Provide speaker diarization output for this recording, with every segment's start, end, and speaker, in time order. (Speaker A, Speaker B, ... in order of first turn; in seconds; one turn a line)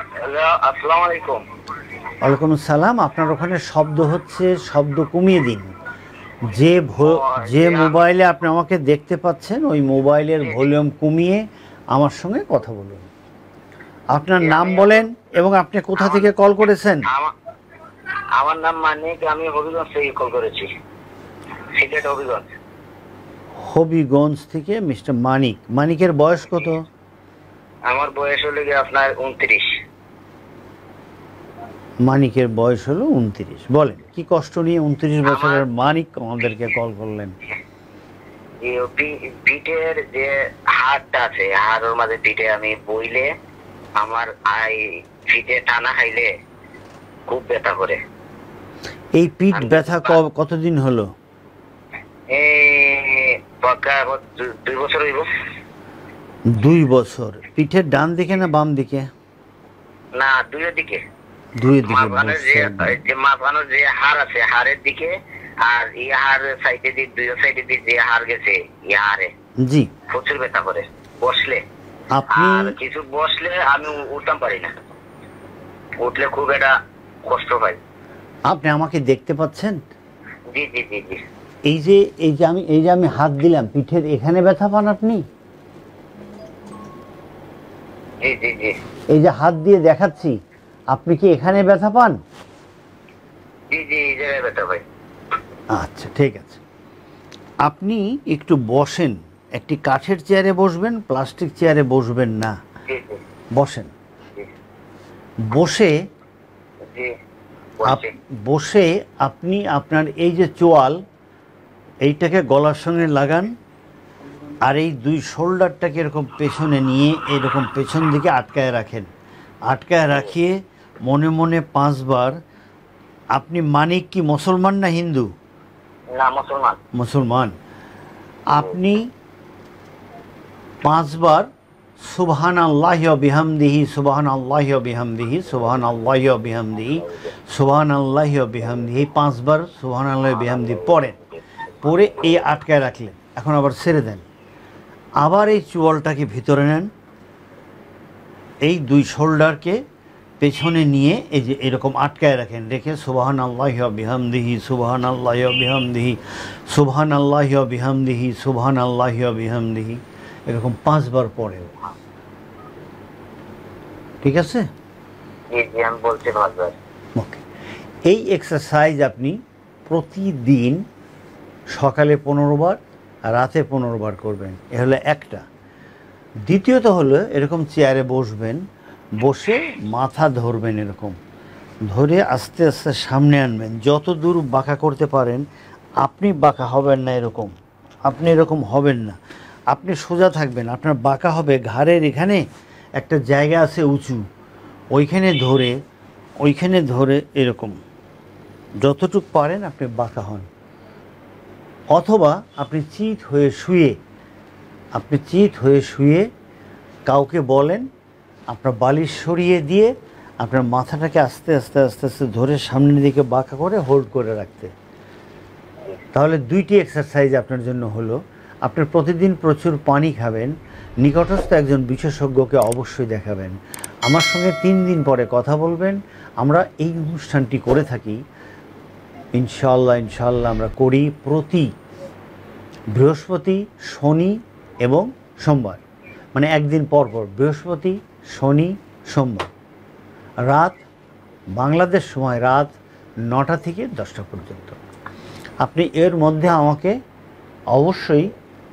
Speaker A: 0.2-1.4
Speaker B: 2.2-5.7
Speaker B: 6.5-11.4
Speaker A: 7.0-8.0
Speaker B: 11.9-13.1
Speaker B: 14.1-17.0
Speaker A: 14.4-15.0
Speaker A: 16.0-16.3
Speaker A: 18.4-20.7
Speaker A: 21.7-22.5
Speaker B: 23.6-26.8
Speaker A: 27.9-29.6
Speaker B: 32.0-37.3
Speaker A: 35.2-35.6
Speaker A: 38.6-43.3
Speaker A: 44.0-46.3
Speaker A: 47.3-48.0
Speaker B: 49.1-51.1
Speaker A: 49.5-50.2
Speaker A: 52.3-55.3
Speaker B: 56.5-59.1
Speaker A: 60.1-61.0
Speaker B: 61.6-63.0
Speaker A: 61.8-65.1
Speaker A: 65.6-69.3
Speaker B: 69.6-69.9
Speaker A: 70.1-71.6
Speaker B: 72.1-72.7
Speaker A: 72.3-74.7
Speaker A: 76.0-77.8
Speaker B: 78.5-79.8
Speaker A: 80.5-81.2
Speaker B: 81.7-85.2
Speaker A: 88.2-88.7
Speaker B: 89.1-90.3
Speaker B: 90.9-92.2
Speaker A: 93.7-94.8
Speaker B: 95.7-96.6
Speaker B: 97.6-102.5
Speaker A: 102.9-103.2
Speaker B: 103.5-103.9
Speaker B: 105.5-105.9
Speaker A: 107.8-108.1
Speaker B: 107.8-111.0
Speaker B: 112.0-113.5
Speaker B: 114.6-119.1
Speaker B: 119.7-122.3
Speaker B: 123.3-125.3
Speaker A: 126.1-126.8
Speaker B: 126.9-127.5
Speaker B: 128.5-129.1
Speaker B: 130.8-131.5
Speaker B: 132.0-141.1
Speaker A: 140.3-141.2
Speaker A: 141.8-142.4
Speaker B: 141.8-144.2
Speaker B: 145.2-146.9
Speaker B: 148.6-149.8
Speaker B: 150.4-161.7
Speaker B: 164.2-164.6
Speaker A: 165.5-166.8
Speaker B: 167.2-167.4
Speaker B: 168.1-169.4
Speaker B: 169.9-170.8
Speaker B: 171.7-172.8
Speaker B: 173.3-175.4
Speaker B: 176.5-178.6
Speaker B: 179.2-181.2
Speaker B: 181.9-185.4
Speaker B: 186.0-187.5
Speaker B: 188.1-189.2
Speaker B: 189.7-192.4
Speaker B: 193.0-194.2
Speaker B: 194.9-195.8
Speaker B: 196.4-197.8
Speaker B: 198.8-200.5
Speaker B: 201.9-203.9
Speaker B: 204.9-206.2
Speaker B: 207.1-207.8
Speaker B: 208.5-214.7
Speaker B: 216.1-223.5
Speaker B: 224.1-228.2
Speaker B: 229.3-231.7
Speaker B: 232.9-235.8
Speaker B: 236.3-239.5
Speaker B: 240.4-240.8
Speaker B: 241.6-242.7
Speaker B: 243.3-244.8
Speaker B: 245.6-246.9
Speaker B: 247.7-248.3